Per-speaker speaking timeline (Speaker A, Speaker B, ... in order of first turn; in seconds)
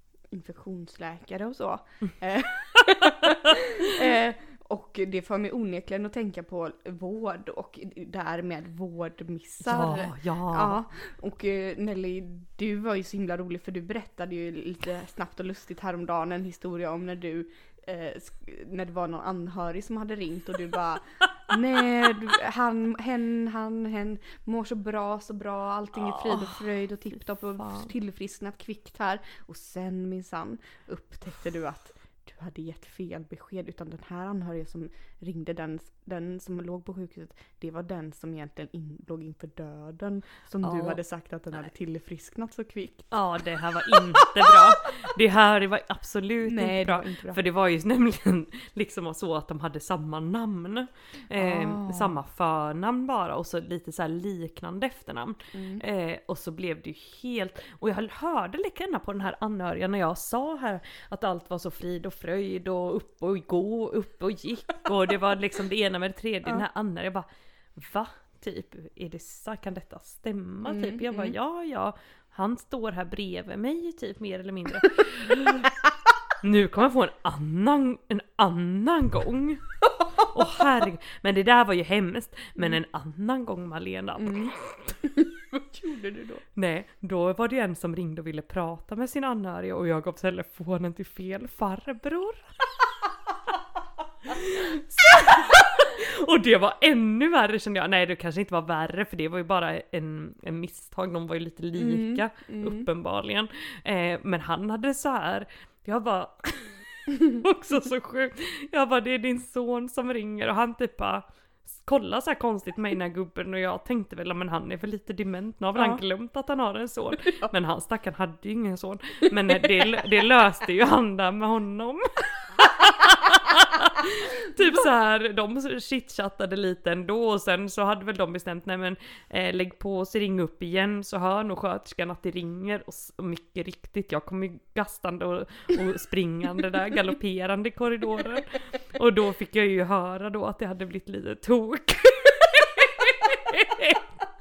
Speaker A: 0.3-43.2, 43.7-44.6, 46.4-47.4, 51.4-52.2, 55.5-55.8, 70.7-71.4, 84.2-86.4, 101.8-102.9
Speaker B: 9.6-10.8, 25.9-26.7, 27.6-27.9, 40.6-41.0, 43.1-75.7, 76.4-85.0, 86.5-92.5, 94.2-144.1